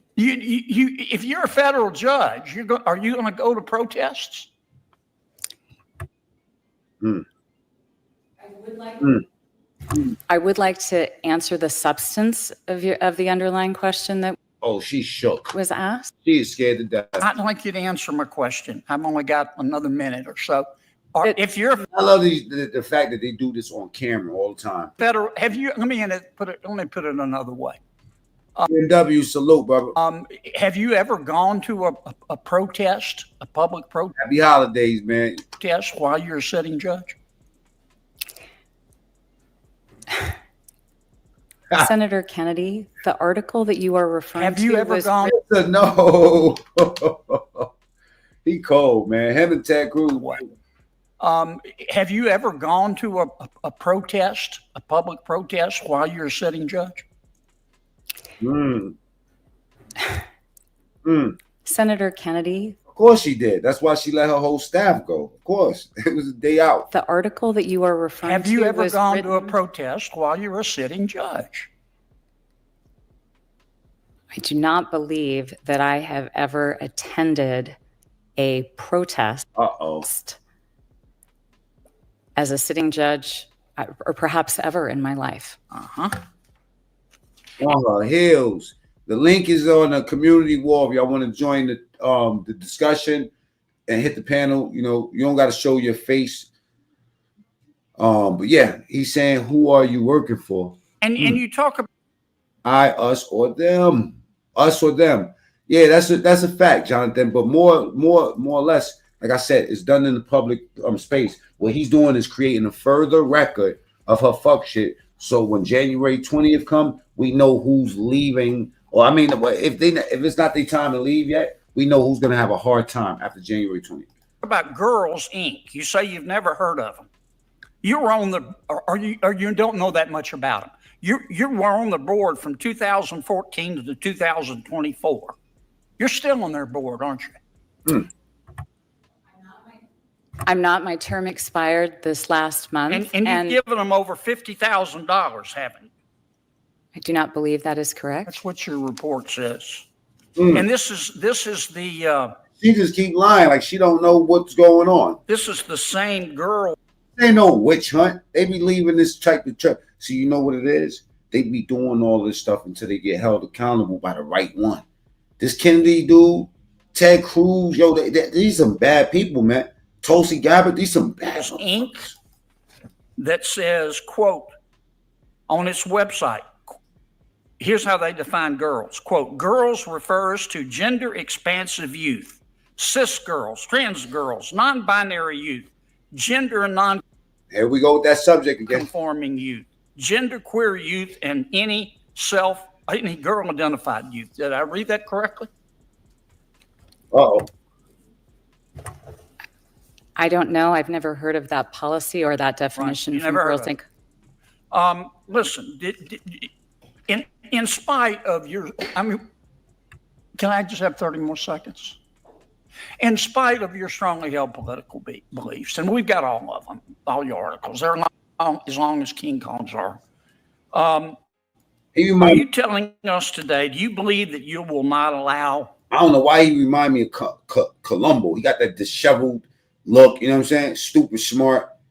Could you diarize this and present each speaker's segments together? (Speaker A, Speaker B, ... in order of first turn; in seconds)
Speaker A: 0.2-4.5, 17.2-21.9, 25.0-27.8, 29.9-34.1, 35.6-37.1, 44.3-45.3, 51.2-57.0, 68.2-71.7, 85.7-86.2, 101.0-101.9, 124.4-127.1, 127.8-135.3, 136.0-137.4, 142.9-145.9, 148.3-149.9, 150.5-152.3, 155.3-156.8, 171.3-172.1, 173.2-174.5, 175.5-176.4, 177.6-187.0, 188.7-195.5, 202.8-203.7, 204.7-206.5, 207.1-209.2, 210.4-212.0, 213.0-220.0, 220.7-221.2, 222.2-225.7
Speaker B: 8.5-9.1, 10.3-14.4, 15.5-16.1, 41.7-45.2, 61.6-62.8, 66.9-69.5, 74.3-77.8, 78.4-79.5, 80.0-80.4, 82.4-85.6, 140.4-143.6, 146.9-148.4, 200.2-203.8
Speaker C: 14.6-15.5, 16.2-17.2, 21.9-24.9, 28.7-30.0, 34.2-35.4, 45.3-47.7, 48.5-50.5, 58.4-59.0, 61.0-61.4, 62.9-66.9, 79.6-80.1, 87.6-93.3, 93.9-96.5, 98.0-101.4, 102.7-124.1, 150.4-150.7, 152.6-155.2, 157.2-164.8, 165.4-172.2, 187.5-188.9, 197.1-197.5, 221.9-222.4, 225.9-231.7